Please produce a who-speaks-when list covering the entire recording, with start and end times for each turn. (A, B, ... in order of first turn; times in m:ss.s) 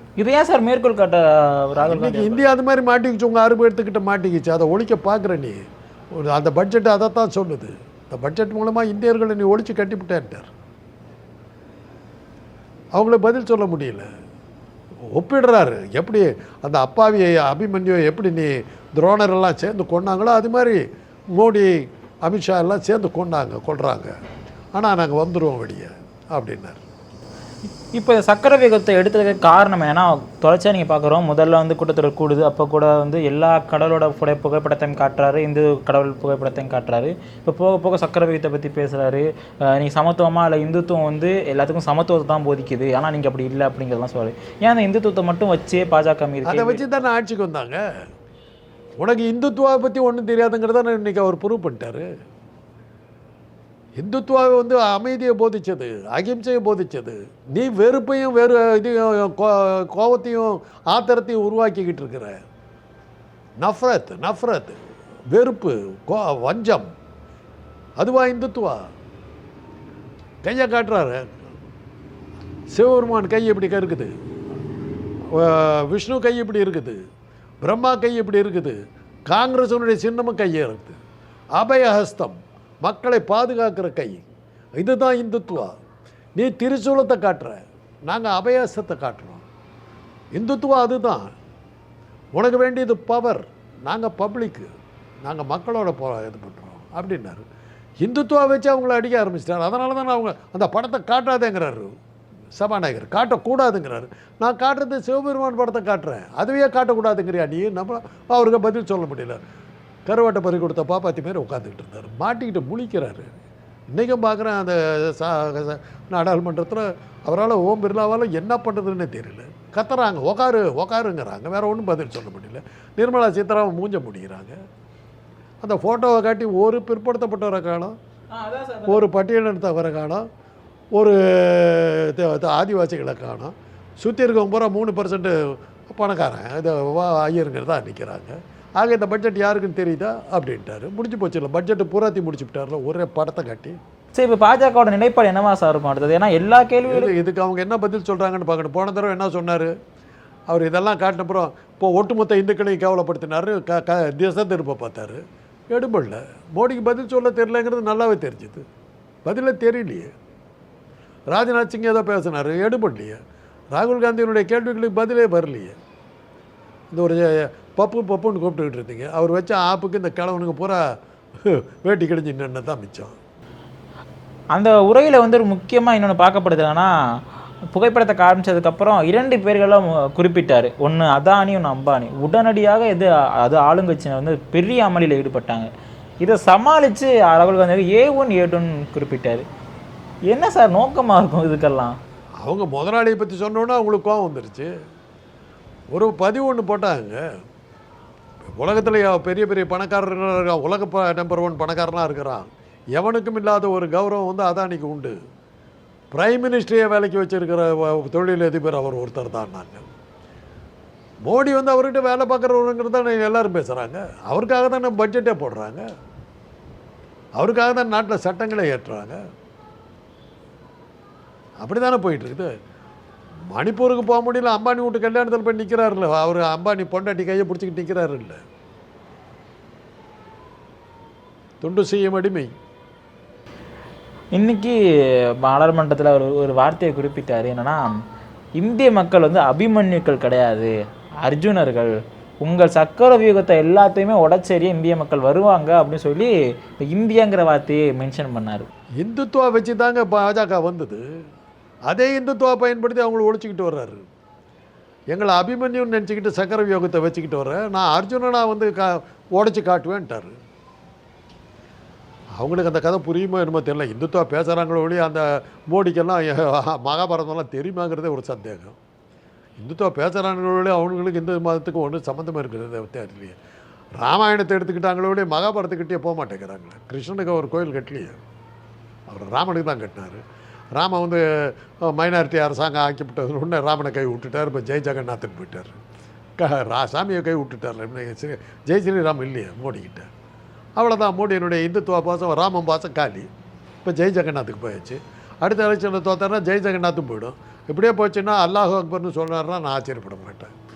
0:00.2-0:02.4 A
0:01.8-0:05.6 B
0:06.1-0:10.5 B
0:12.9-0:14.1 B
0:15.1-0:24.1 B
0:24.7-0:26.8 B
0:27.9-0:46.9 A
0:46.4-0:47.8 B
0:49.0-0:52.0 B
0:54.0-1:02.4 B
1:03.6-1:04.8 B
1:05.3-1:06.9 B
1:08.0-1:08.8 B
1:10.4-1:11.2 B
1:12.7-1:14.1 B
1:15.3-1:17.0 B
1:17.6-1:21.0 B
1:21.5-1:24.2 B
1:24.8-1:25.8 B
1:26.4-1:29.4 B
1:30.3-1:31.3 B
1:32.3-1:34.7 B
1:35.2-1:37.4 B
1:38.0-1:41.9 B
1:42.5-1:49.4 B
1:50.0-1:53.3 B
1:53.9-2:04.6 B
2:05.6-2:07.9 B
2:08.3-2:09.0 A
2:08.9-2:10.2 B
2:10.9-2:23.8 B
2:24.1-2:27.1 A
2:26.8-2:29.7 B
2:30.5-2:38.6 B
2:39.2-2:40.1 B
2:41.3-2:43.2 B
2:43.7-2:45.7 B
2:46.9-2:50.8 B
2:51.4-2:53.1 B
2:54.5-2:56.9 A
2:57.7-3:05.7 A
3:06.2-3:09.4 A
3:10.3-3:12.0 A
3:12.4-3:14.7 B
3:15.9-3:17.2 B
3:18.6-3:25.1 B
3:26.1-3:29.8 B
3:31.2-3:35.8 B
3:37.4-3:39.2 B
3:41.6-3:42.5 B
3:43.5-3:48.4 B
3:51.6-3:52.5 B
3:54.3-3:54.8 A
3:55.4-3:57.9 A
3:58.6-4:08.7 A
4:09.0-4:11.0 B
4:11.9-4:14.0 B
4:15.1-4:20.3 B
4:22.4-4:28.8 B
4:29.6-4:33.4 B
4:34.0-4:38.2 B
4:39.1-4:45.8 B
4:46.4-4:50.1 B
4:50.8-4:53.3 B
4:53.8-5:00.5 B